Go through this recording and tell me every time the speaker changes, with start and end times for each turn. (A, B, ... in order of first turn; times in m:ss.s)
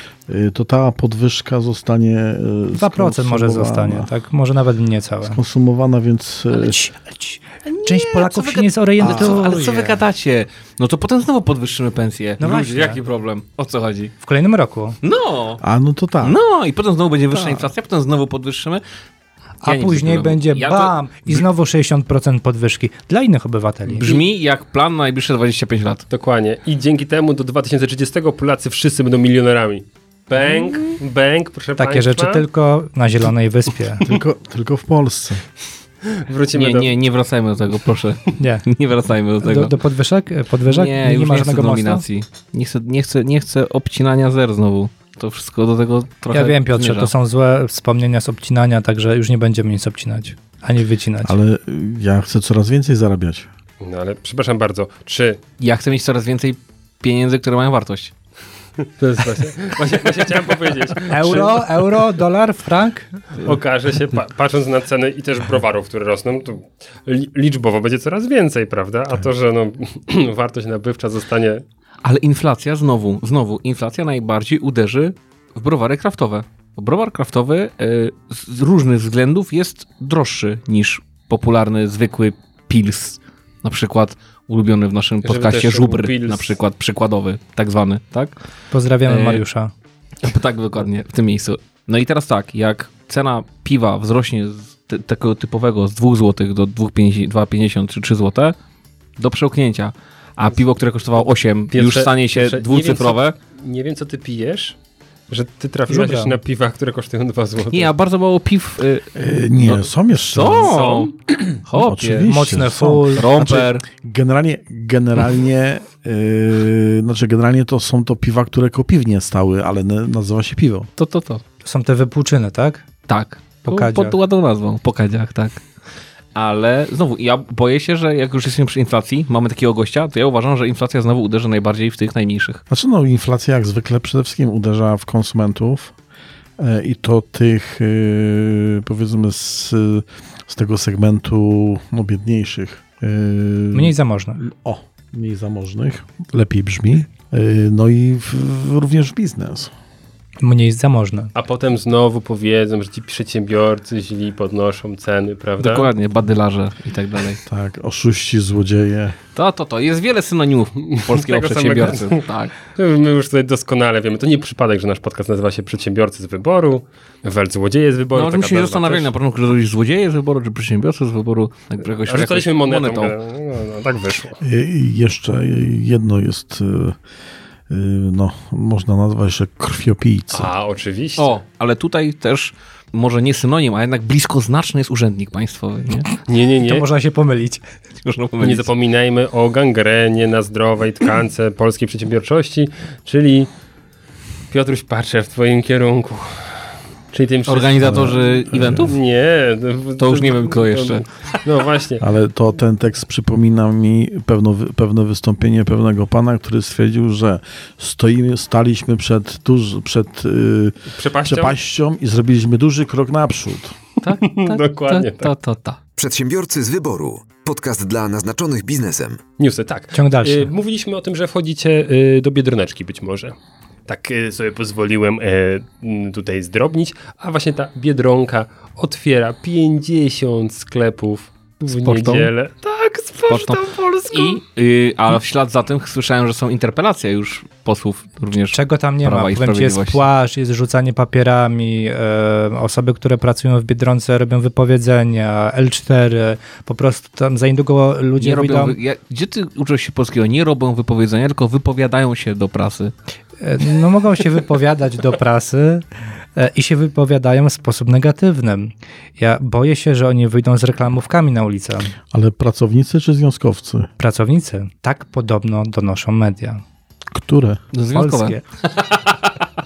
0:00.3-0:04.1 A
0:02.7-0:05.4 B
0:05.2-0:06.8 A
0:06.5-0:10.0 B
0:07.6-0:14.1 C
0:09.0-0:09.4 A
0:12.4-0:13.0 B
0:14.2-0:15.0 B
0:15.0-0:15.6 C
0:15.6-0:16.4 A
0:16.2-0:18.8 C
0:17.3-0:17.7 A
0:19.6-0:21.4 C
0:19.6-0:24.2 B
0:24.0-0:26.1 C
0:26.1-0:32.4 D
0:31.8-0:34.0 B
0:34.0-0:35.4 A
0:36.0-0:36.9 D
0:36.5-0:39.8 C
0:38.4-0:38.7 B
0:39.4-0:42.0 B
0:40.6-0:47.1 C
0:46.3-0:51.4 B
0:51.2-0:53.5 A
0:53.8-0:55.4 D
0:55.6-0:58.1 C
0:59.0-1:01.6 D
1:01.1-1:03.2 B
1:03.4-1:11.6 D
1:12.0-1:28.3 C
1:25.2-1:26.5 D
1:28.7-1:29.7 B
1:29.0-1:29.4 C
1:30.2-1:38.5 C
1:39.2-1:43.4 C
1:41.7-1:44.8 D
1:45.3-1:47.9 D
1:45.9-1:46.4 B
1:47.7-1:52.3 C
1:49.2-1:50.9 A
1:50.6-1:51.1 D
1:51.7-2:00.9 A
1:52.2-1:53.6 B
1:53.2-1:53.8 C
2:01.0-2:01.4 C
2:01.6-2:02.9 B
2:03.1-2:05.6 C
2:03.6-2:04.2 B
2:06.3-2:12.6 C
2:12.7-2:15.9 A
2:16.6-2:29.7 A
2:23.7-2:24.4 B
2:30.4-2:31.3 B
2:31.3-2:35.9 D
2:35.6-2:37.4 C
2:37.5-2:39.2 A
2:39.3-2:42.5 C
2:40.8-2:49.1 D
2:48.1-2:53.1 C
2:52.0-2:54.4 D
2:54.4-2:57.0 A
2:57.7-3:00.5 A
3:00.3-3:01.4 D
3:01.2-3:06.1 C
3:06.3-3:06.9 D
3:06.6-3:07.7 B
3:08.0-3:08.7 C
3:08.4-3:13.5 D
3:14.5-3:18.2 D
3:17.4-3:19.0 C
3:17.8-3:18.9 A
3:18.8-3:22.0 D
3:20.0-3:21.4 C
3:22.0-3:33.8 A
3:31.0-3:31.5 D
3:34.0-3:35.8 C
3:34.0-3:35.3 D
3:36.0-3:39.2 E
3:39.4-3:43.3 D
3:39.9-3:40.5 B
3:43.9-3:54.4 D
3:51.8-3:52.2 C
3:51.9-3:52.2 B
3:53.3-4:00.0 C
3:58.5-4:08.8 B
4:08.2-4:12.9 C
4:13.4-4:21.9 B
4:22.1-4:23.9 A
4:24.0-4:26.6 B
4:27.1-4:27.6 A
4:27.7-4:29.2 C
4:27.9-4:28.4 B